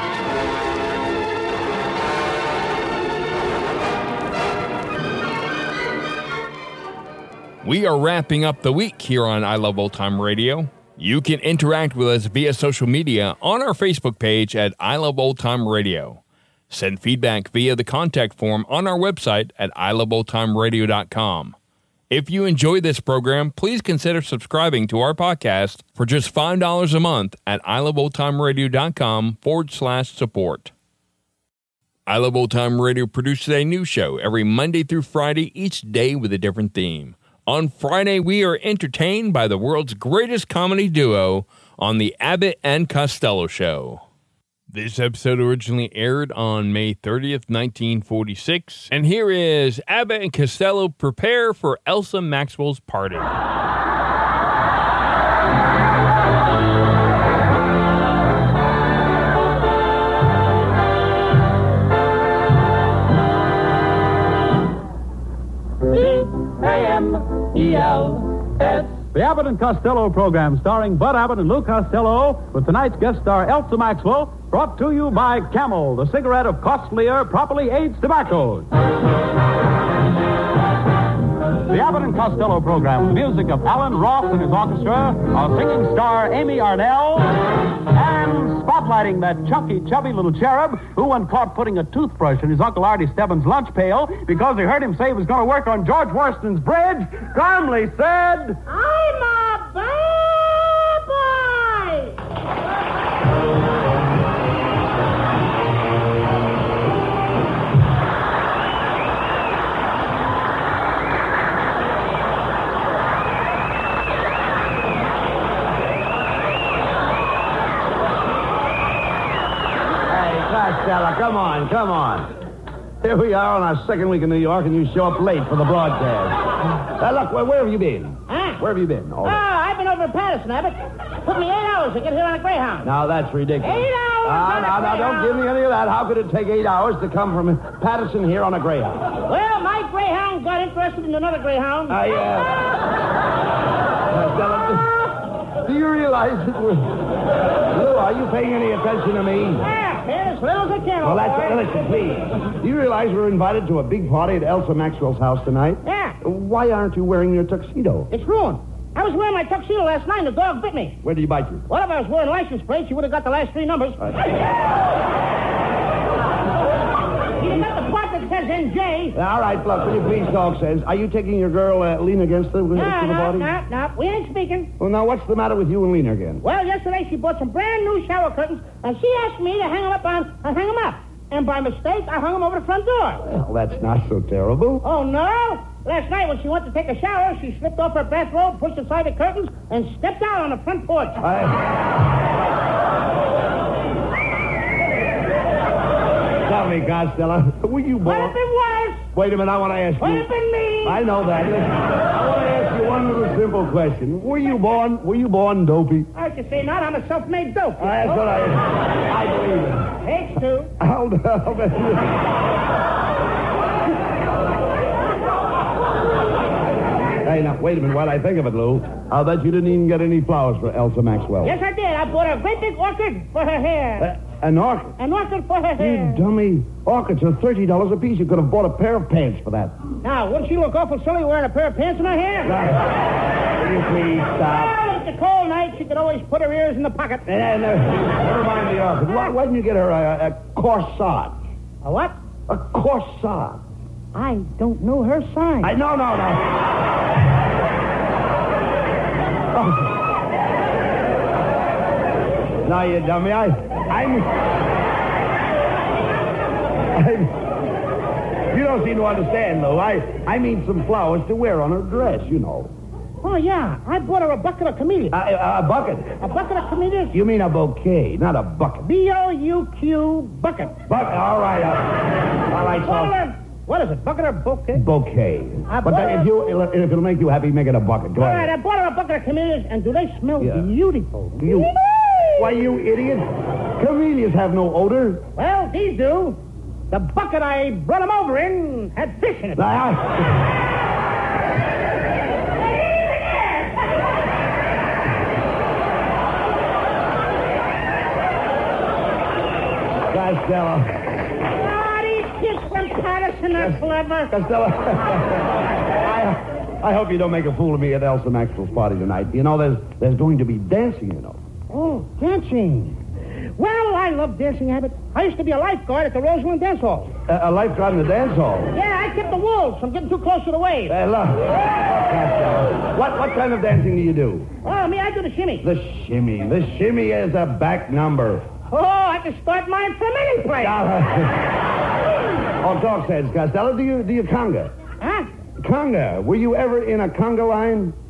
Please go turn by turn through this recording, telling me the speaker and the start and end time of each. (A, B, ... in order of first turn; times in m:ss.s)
0:07.6-0:21.6 A
0:22.1-0:30.7 A
0:32.1-0:44.0 A
0:44.7-0:53.4 A
1:05.9-1:18.7 B
1:21.6-1:38.6 B
1:38.6-1:42.1 C
2:00.1-2:02.3 D
2:03.0-2:09.4 D
2:08.3-2:08.6 C
2:09.2-2:12.9 C
2:12.8-2:19.1 D
2:13.6-2:15.4 C
2:19.2-2:22.0 C
2:21.9-2:22.6 D
2:24.1-2:27.0 D
2:27.7-2:29.6 D
2:29.6-2:31.6 C
2:31.0-2:38.1 D
2:35.8-2:36.2 C
2:38.1-2:41.0 C
2:41.0-2:41.6 D
2:41.7-2:44.0 C
2:47.4-2:49.2 C
2:49.1-2:53.5 D
2:52.8-2:54.7 C
2:54.8-2:56.4 D
2:56.4-3:03.2 C
3:03.3-3:04.8 D
3:04.8-3:11.2 C
3:11.2-3:11.6 D
3:16.4-3:18.4 D
3:18.0-3:19.0 C
3:19.1-3:20.3 D
3:20.0-3:21.0 C
3:20.8-3:26.1 D
3:26.1-3:28.3 C
3:27.8-3:29.9 D
3:30.0-3:30.7 C
3:30.8-3:32.2 D
3:37.2-3:41.6 D
3:41.4-3:44.1 C
3:44.0-3:44.9 D
3:45.0-3:46.2 C
3:45.8-3:49.8 D
3:50.0-3:52.5 C
3:52.4-3:53.0 D
3:53.5-3:54.7 D
3:54.4-3:57.2 C
3:57.2-4:01.4 D
4:01.8-4:02.1 C
4:02.5-4:03.6 D
4:04.1-4:05.7 C
4:05.6-4:06.6 D
4:09.5-4:09.9 D
4:12.6-4:14.3 D
4:16.9-4:17.4 D
4:18.5-4:22.7 D
4:23.2-4:25.2 C
4:25.1-4:26.1 D
4:26.2-4:27.2 C
4:27.1-4:28.8 D
4:28.8-4:30.8 C
4:30.9-4:33.2 D
4:32.8-4:34.8 C
4:34.7-4:38.5 D
4:35.7-4:36.3 C
4:38.2-4:41.5 C
4:40.4-4:40.6 D
4:41.4-4:41.7 D
4:42.4-4:45.2 D
4:45.4-4:46.4 C
4:46.9-4:49.6 C
4:49.6-4:50.3 D
5:00.1-5:00.9 D
5:01.5-5:04.3 C
5:04.3-5:05.4 D
5:06.0-5:11.4 D
5:11.7-5:13.0 C
5:13.6-5:17.1 C
5:17.3-5:18.7 D
5:18.7-5:20.9 C
5:20.9-5:24.5 D
5:24.6-5:25.6 C
5:25.6-5:28.4 D
5:28.7-5:30.8 C
5:30.6-5:31.5 D
5:32.6-5:34.7 D
5:35.0-5:35.3 C
5:35.6-5:37.9 D